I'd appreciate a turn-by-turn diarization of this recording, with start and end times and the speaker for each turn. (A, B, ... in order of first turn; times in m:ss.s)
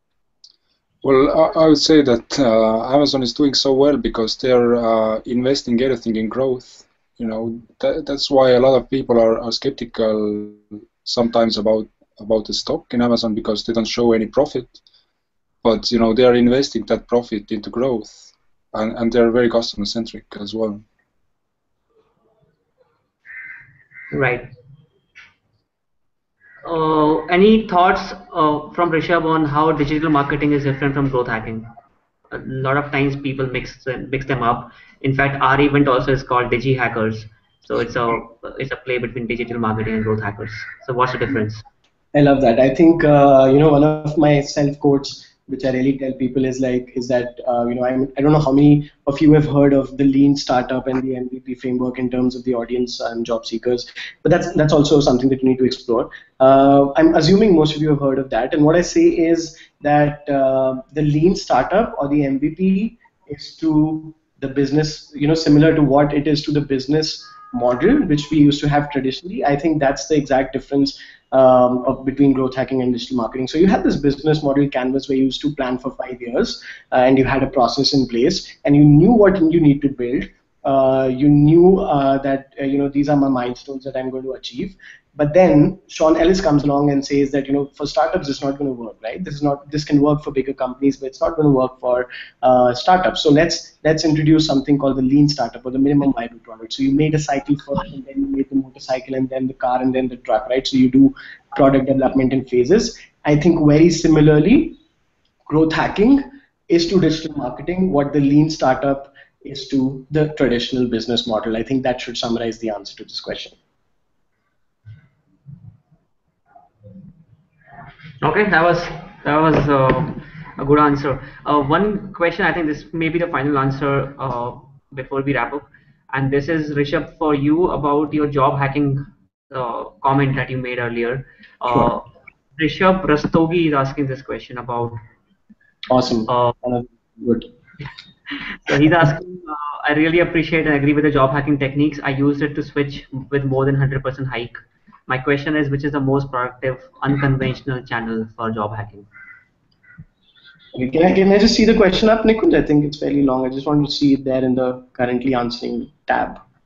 0:01.0-0:14.8 A
0:15.6-0:20.8 A
0:24.1-0:24.5 B
0:26.6-0:31.7 B
0:32.3-0:41.6 B
0:42.1-1:44.8 C
1:45.5-1:53.6 C
1:58.2-2:15.0 B
2:15.9-2:17.5 C
2:16.3-2:16.6 B
2:18.6-2:29.1 B
2:30.7-2:36.4 C